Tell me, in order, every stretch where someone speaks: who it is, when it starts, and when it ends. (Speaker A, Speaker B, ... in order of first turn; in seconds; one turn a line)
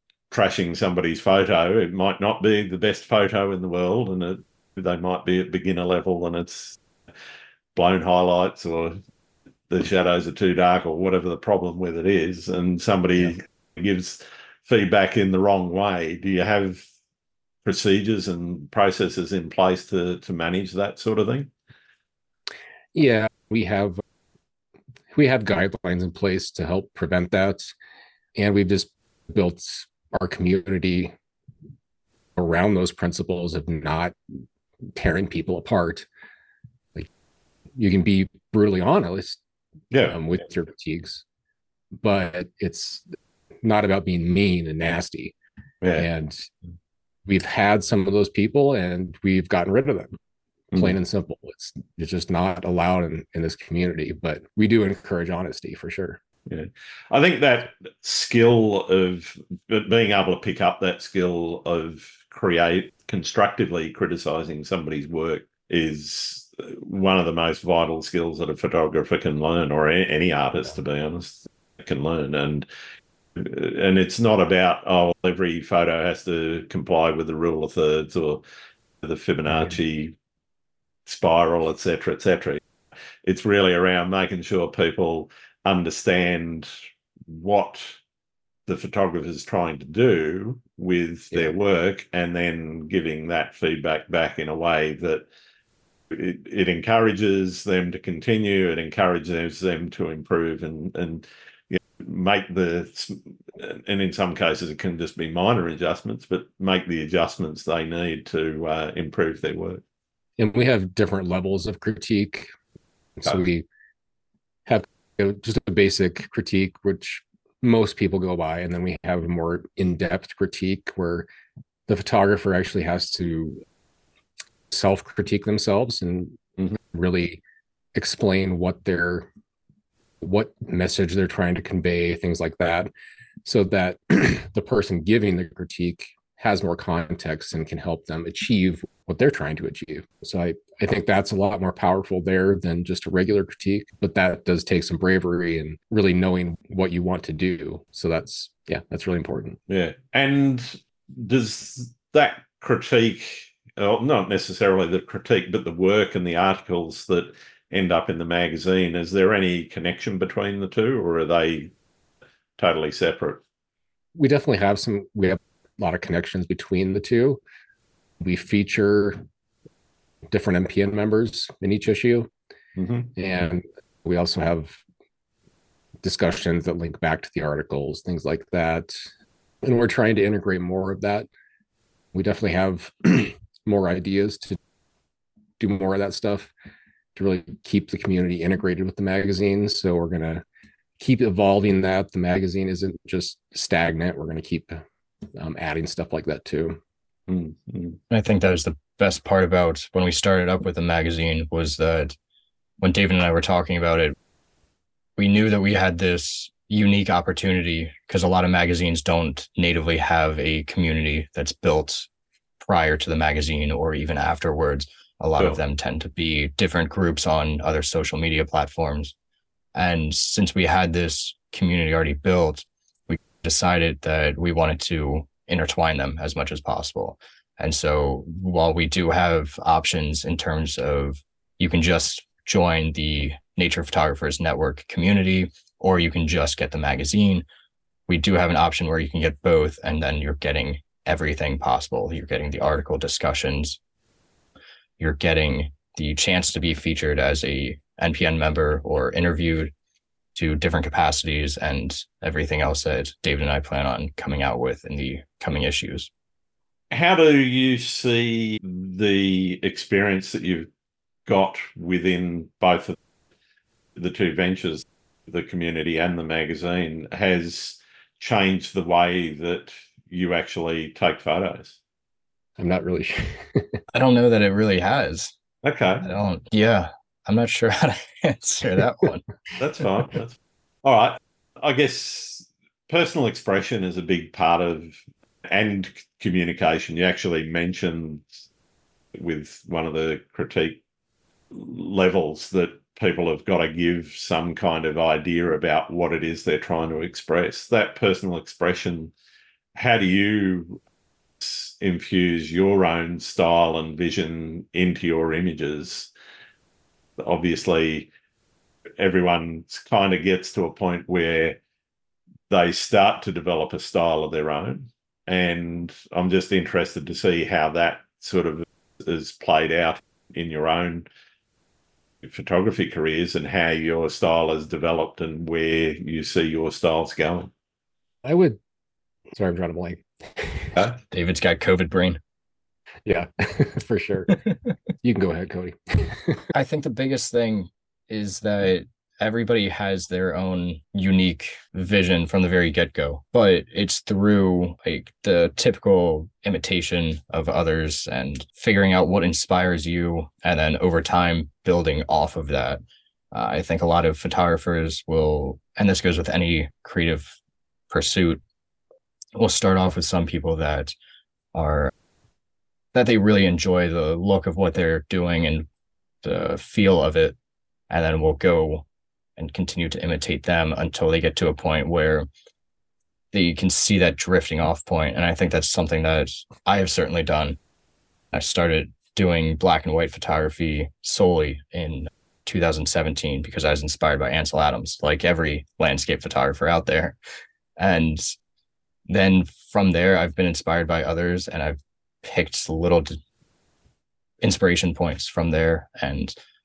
Speaker A: 0.3-6.8
Speaker A: 7.8-9.0
Speaker A: 9.7-16.8
Speaker A: 17.6-21.5
Speaker B: 22.9-24.0
Speaker B: 25.1-27.7
Speaker B: 28.4-31.1
Speaker B: 32.4-34.2
Speaker B: 35.0-36.1
Speaker B: 37.8-39.4
Speaker A: 39.9-40.2
Speaker B: 40.1-41.2
Speaker B: 42.0-43.0
Speaker B: 43.6-45.4
Speaker A: 45.8-46.1
Speaker B: 46.0-46.5
Speaker B: 47.3-50.1
Speaker B: 50.7-56.2
Speaker A: 56.5-72.7
Speaker A: 73.4-78.4
Speaker A: 79.0-80.2
Speaker A: 81.1-82.6
Speaker A: 83.2-86.7
Speaker A: 87.3-88.0
Speaker A: 88.7-95.3
Speaker A: 96.1-109.8
Speaker B: 110.4-112.5
Speaker B: 113.2-113.7
Speaker B: 114.7-121.3
Speaker B: 121.9-123.6
Speaker B: 124.7-127.4
Speaker B: 128.0-129.3
Speaker B: 130.2-132.9
Speaker B: 133.4-149.6
Speaker A: 149.7-161.7
Speaker A: 162.6-163.4
Speaker B: 164.2-167.4
Speaker B: 168.2-169.2
Speaker B: 170.3-172.3
Speaker A: 172.8-173.1
Speaker B: 173.2-174.8
Speaker B: 176.0-179.1
Speaker B: 179.6-181.3
Speaker B: 182.1-184.6
Speaker B: 185.6-186.5
Speaker B: 187.2-190.4
Speaker B: 191.0-194.8
Speaker B: 195.4-196.8
Speaker A: 197.3-198.0
Speaker C: 198.1-202.2
Speaker C: 202.8-204.2
Speaker C: 205.2-212.1
Speaker C: 212.6-219.1
Speaker C: 219.8-237.4
Speaker C: 238.1-243.8
Speaker C: 245.0-249.7
Speaker C: 250.3-256.1
Speaker A: 256.9-260.7
Speaker A: 261.3-263.0
Speaker A: 264.0-271.8
Speaker B: 272.6-273.8
Speaker C: 273.9-275.4
Speaker A: 275.6-276.0
Speaker C: 276.0-279.2
Speaker A: 279.6-288.3
Speaker A: 289.1-290.8
Speaker A: 291.5-299.1
Speaker A: 299.8-300.8
Speaker A: 301.4-306.1
Speaker A: 307.2-308.1
Speaker A: 309.0-311.6
Speaker A: 312.5-321.1
Speaker A: 322.2-327.5
Speaker B: 328.2-328.6
Speaker B: 329.3-330.8
Speaker C: 331.1-332.2
Speaker B: 333.1-334.4
Speaker B: 335.0-336.4
Speaker C: 336.5-357.4
Speaker C: 357.9-358.4
Speaker C: 359.4-360.9
Speaker C: 361.5-361.9
Speaker C: 362.9-365.7
Speaker C: 366.2-367.4
Speaker C: 367.9-368.9
Speaker C: 369.4-372.3
Speaker C: 373.3-377.6
Speaker C: 378.3-387.2
Speaker C: 387.8-388.3
Speaker C: 389.1-393.2
Speaker C: 394.4-396.3